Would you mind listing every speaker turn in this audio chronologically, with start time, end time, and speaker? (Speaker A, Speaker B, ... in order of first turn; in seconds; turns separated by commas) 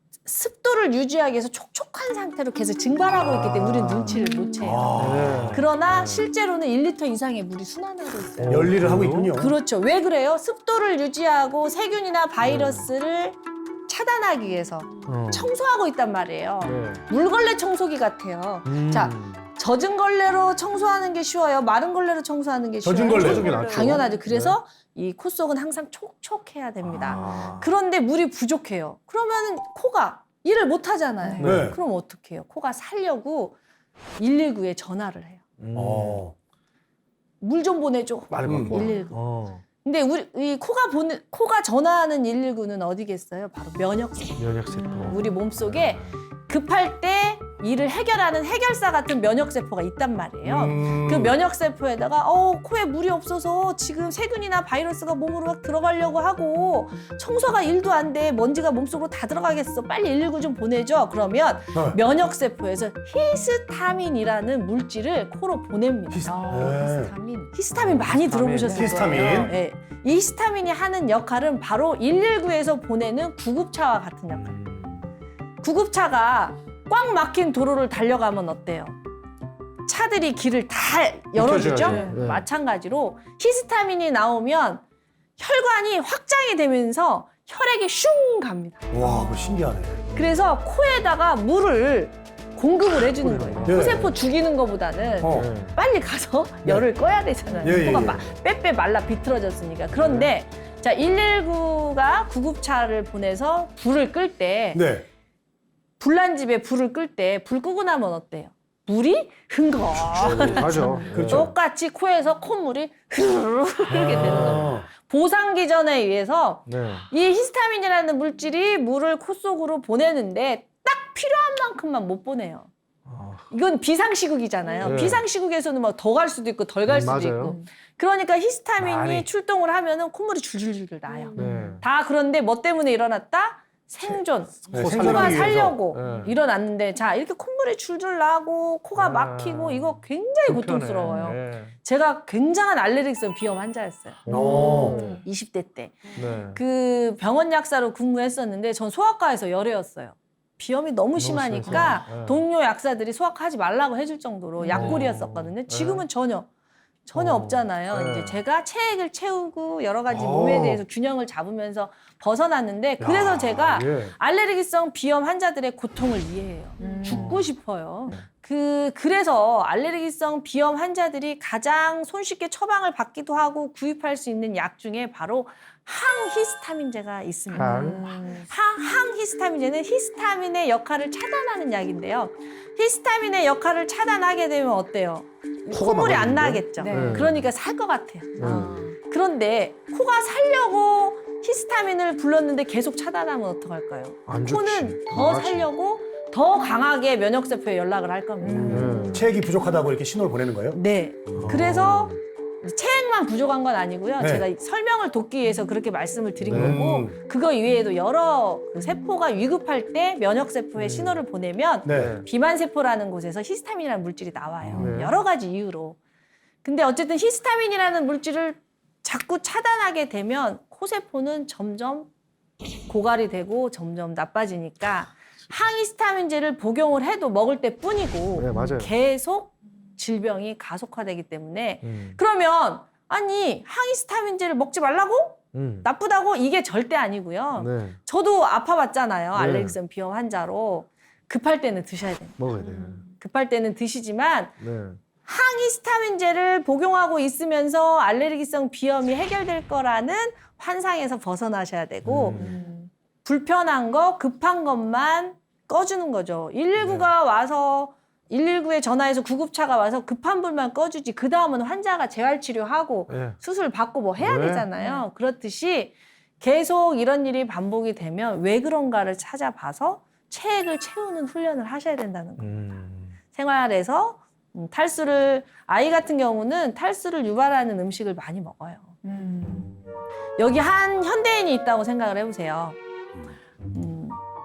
Speaker A: 0.2-5.0, Speaker B: 3.2-5.6, Speaker C: 5.0-6.3, Speaker A: 5.5-8.8, Speaker C: 8.4-9.3, Speaker B: 8.5-9.5, Speaker A: 9.3-33.6, Speaker C: 12.4-12.9, Speaker C: 15.1-15.5, Speaker C: 16.6-17.0, Speaker C: 18.6-19.5, Speaker B: 22.8-23.6, Speaker D: 23.1-24.2, Speaker C: 23.1-24.6, Speaker C: 26.8-27.7, Speaker D: 31.2-31.5, Speaker C: 31.4-31.7, Speaker B: 31.4-31.8, Speaker A: 34.2-35.4, Speaker C: 35.6-36.2, Speaker B: 35.8-36.4, Speaker A: 37.4-39.2, Speaker C: 38.3-39.6, Speaker B: 38.4-38.8, Speaker A: 39.8-44.5, Speaker C: 44.4-46.2, Speaker D: 44.8-45.3, Speaker A: 45.0-66.4, Speaker B: 50.4-51.4, Speaker B: 66.1-67.1, Speaker D: 66.2-67.7, Speaker A: 67.5-74.6, Speaker C: 67.7-69.5, Speaker D: 68.7-69.5, Speaker B: 68.7-69.5, Speaker C: 74.3-75.1, Speaker A: 75.6-79.0, Speaker A: 79.9-84.8, Speaker C: 81.3-82.5, Speaker A: 85.4-88.9, Speaker B: 88.9-90.1, Speaker A: 90.1-104.8, Speaker C: 93.2-94.1, Speaker B: 93.6-94.1, Speaker B: 95.2-95.5, Speaker C: 95.3-95.8, Speaker B: 97.6-98.3, Speaker C: 99.9-100.3, Speaker B: 104.7-105.1, Speaker A: 106.0-122.7, Speaker C: 110.1-111.5, Speaker B: 111.1-111.5, Speaker B: 113.9-114.9, Speaker C: 114.1-114.7, Speaker C: 116.7-117.1, Speaker C: 123.1-123.5, Speaker A: 123.5-156.5, Speaker C: 124.8-125.2, Speaker C: 126.8-127.5, Speaker C: 128.8-129.3, Speaker D: 131.3-131.8, Speaker C: 131.4-131.8, Speaker B: 134.7-135.8, Speaker C: 134.7-136.3, Speaker C: 138.9-141.8, Speaker C: 144.2-144.6, Speaker B: 144.3-145.0, Speaker D: 144.3-145.2, Speaker C: 146.2-146.6, Speaker C: 151.2-152.4, Speaker D: 151.7-151.9, Speaker D: 154.6-155.1, Speaker C: 154.7-156.0, Speaker A: 157.1-199.1, Speaker C: 157.1-158.4, Speaker C: 160.1-160.8, Speaker C: 163.0-164.1, Speaker D: 166.8-167.4, Speaker C: 167.0-167.5, Speaker D: 177.5-178.5, Speaker C: 177.6-178.0, Speaker C: 185.7-187.5, Speaker D: 186.8-187.3, Speaker D: 188.4-189.0, Speaker C: 188.4-188.8, Speaker C: 194.3-195.7, Speaker D: 198.4-199.3, Speaker B: 198.4-200.8, Speaker C: 198.7-199.2, Speaker A: 200.7-216.0, Speaker C: 201.3-202.2, Speaker B: 204.2-204.5, Speaker B: 206.4-207.1, Speaker C: 206.5-206.8, Speaker C: 210.8-211.2, Speaker B: 211.9-212.1, Speaker C: 211.9-212.3, Speaker C: 214.7-215.2, Speaker A: 216.6-222.1, Speaker A: 222.9-242.4, Speaker C: 228.4-228.9, Speaker C: 231.8-232.2, Speaker C: 235.5-235.9, Speaker C: 237.6-238.0, Speaker C: 239.3-239.8, Speaker C: 242.4-243.0, Speaker D: 242.6-243.0, Speaker A: 243.2-244.5, Speaker C: 244.6-245.0, Speaker A: 245.2-252.4, Speaker C: 252.0-252.6, Speaker D: 252.3-252.9, Speaker A: 253.2-272.5, Speaker C: 256.8-257.1, Speaker C: 263.1-263.4, Speaker C: 264.2-264.7, Speaker D: 264.8-265.0, Speaker C: 272.4-273.1, Speaker A: 273.3-278.9, Speaker D: 279.0-279.7, Speaker A: 280.4-282.8, Speaker A: 283.7-284.2